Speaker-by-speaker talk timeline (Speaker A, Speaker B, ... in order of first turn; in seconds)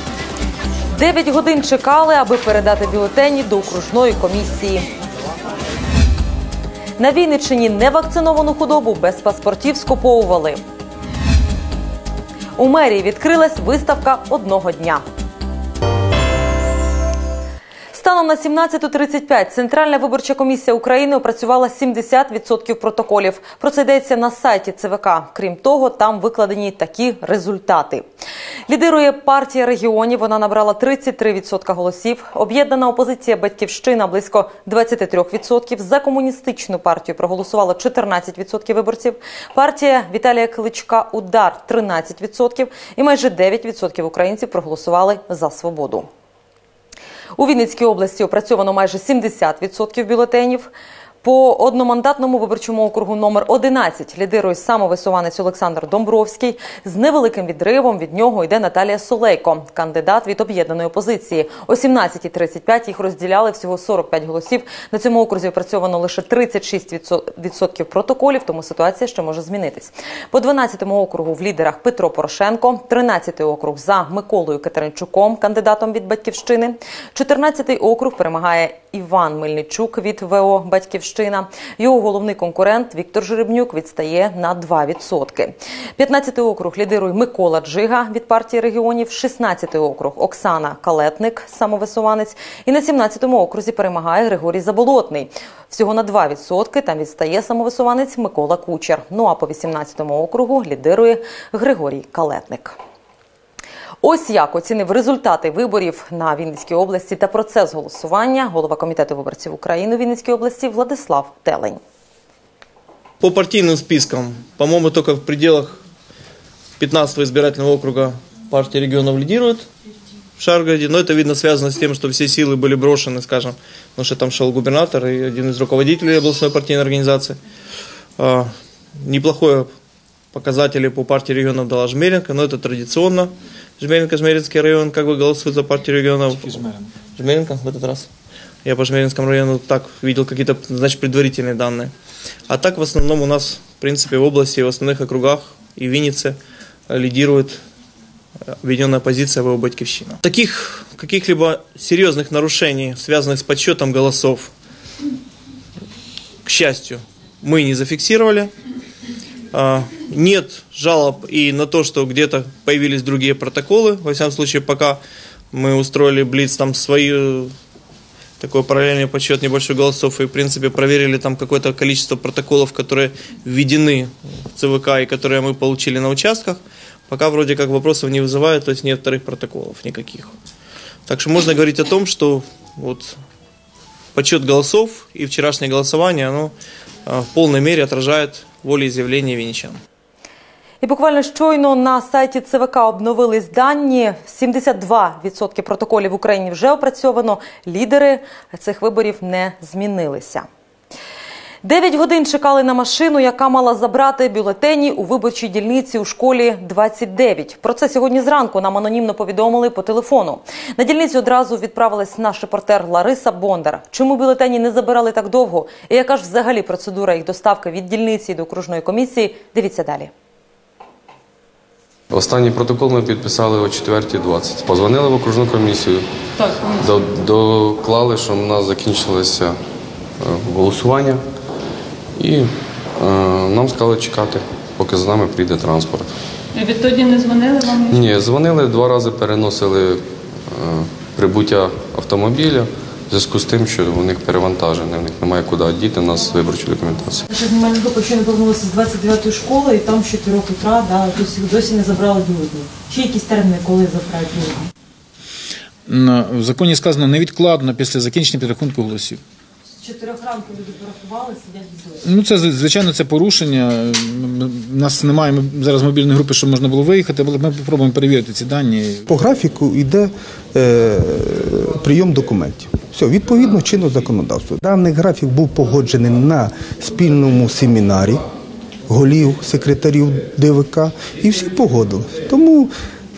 Speaker A: 1.0-4.9, 7.0-10.6, 12.6-15.0, 17.9-28.1, 28.7-46.1, 47.4-50.7, 51.2-102.8, 104.0-111.8, 190.8-200.5, 201.6-220.1, 247.9-248.4, 250.1-254.4, 260.9-261.2
Speaker B: 113.2-115.8, 116.8-119.7, 120.4-127.4, 128.2-129.7, 130.3-138.1, 138.6-141.9, 142.5-147.6, 148.6-154.5, 156.4-158.5, 159.5-167.5, 168.4-180.3, 181.1-183.2, 184.1-186.5, 187.1-189.8
Speaker C: 222.1-226.1, 226.7-229.6, 230.2-231.2, 232.2-236.1, 237.9-247.2
Speaker D: 226.4-226.9, 236.6-237.9
Speaker E: 247.3-253.5, 254.2-254.5, 260.3-260.6
Speaker F: 256.5-259.1, 262.2-262.7
Speaker G: 269.1-278.2, 278.9-282.7